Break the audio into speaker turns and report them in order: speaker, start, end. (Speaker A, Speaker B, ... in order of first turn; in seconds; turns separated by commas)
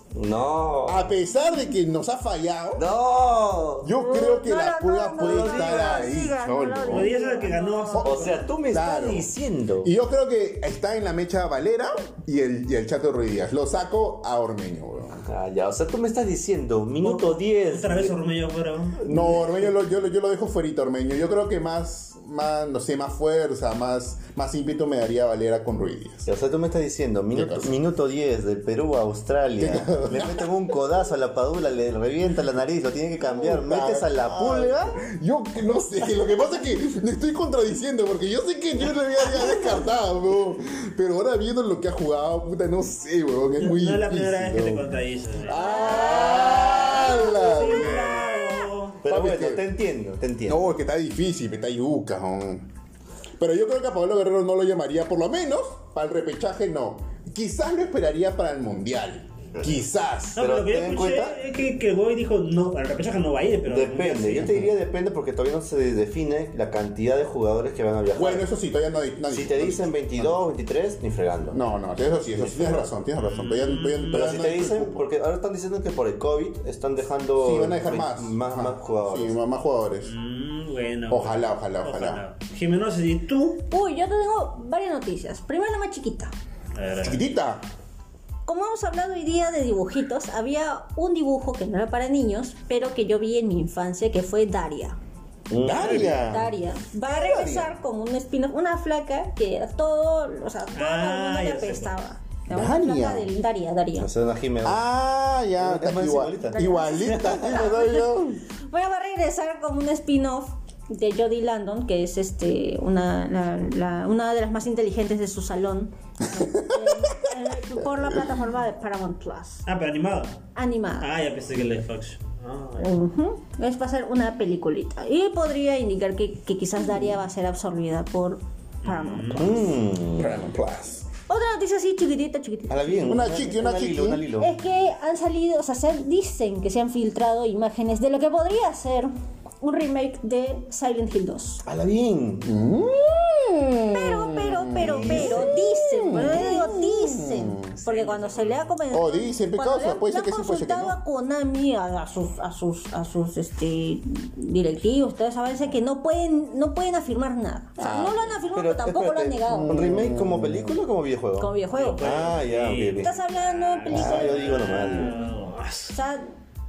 Speaker A: 0.1-1.1, Speaker B: 0.8-2.9, Speaker A: 2.8-3.9, Speaker B: 3.8-7.1, Speaker C: 4.0-8.3, Speaker A: 5.2-6.2, Speaker D: 6.9-8.4, Speaker A: 8.0-9.9, Speaker B: 8.7-15.2, Speaker A: 15.2-18.2, Speaker D: 17.0-19.0, Speaker A: 19.0-19.7, Speaker B: 19.1-26.3, Speaker A: 26.3-35.0, Speaker B: 27.3-27.7, Speaker B: 29.6-30.5, Speaker B: 33.2-44.8, Speaker D: 43.6-49.0, Speaker B: 45.5-48.4, Speaker C: 45.5-48.6, Speaker A: 46.1-46.9, Speaker A: 49.0-50.6, Speaker B: 49.0-49.6, Speaker B: 50.5-52.7, Speaker B: 53.4-60.4, Speaker D: 60.4-64.6, Speaker A: 60.4-61.4, Speaker A: 63.7-68.5, Speaker B: 68.2-70.4, Speaker A: 69.3-71.6, Speaker B: 71.5-75.0, Speaker A: 72.3-72.9, Speaker D: 73.2-74.7, Speaker A: 74.1-79.4, Speaker B: 77.4-80.2, Speaker D: 80.0-83.6, Speaker B: 81.1-82.2, Speaker C: 83.7-86.3, Speaker D: 86.7-87.2, Speaker B: 87.0-87.6, Speaker C: 88.5-95.0, Speaker A: 95.5-96.5, Speaker B: 95.6-96.5, Speaker D: 95.8-96.1, Speaker C: 96.1-104.1, Speaker B: 97.1-97.8, Speaker D: 100.7-102.0, Speaker B: 102.5-103.3, Speaker A: 104.0-104.8, Speaker B: 104.6-108.4, Speaker A: 105.6-108.0, Speaker C: 106.6-108.0, Speaker C: 108.6-119.6, Speaker B: 116.3-117.2, Speaker D: 119.7-120.5, Speaker C: 120.5-121.1, Speaker D: 121.0-123.0, Speaker C: 122.8-129.7, Speaker D: 128.8-129.7, Speaker A: 129.4-130.4, Speaker B: 130.2-131.1, Speaker C: 131.3-133.2, Speaker A: 132.7-134.5, Speaker B: 133.1-134.2, Speaker C: 134.4-141.6, Speaker A: 141.6-142.5, Speaker B: 142.4-147.7, Speaker C: 143.9-159.9, Speaker A: 145.1-145.4, Speaker D: 147.7-148.7, Speaker B: 148.9-150.9, Speaker B: 157.8-158.3, Speaker A: 158.5-163.1, Speaker B: 159.5-160.8, Speaker C: 161.4-162.2, Speaker D: 161.7-165.9, Speaker C: 163.0-165.0, Speaker A: 163.9-165.2, Speaker C: 165.9-166.3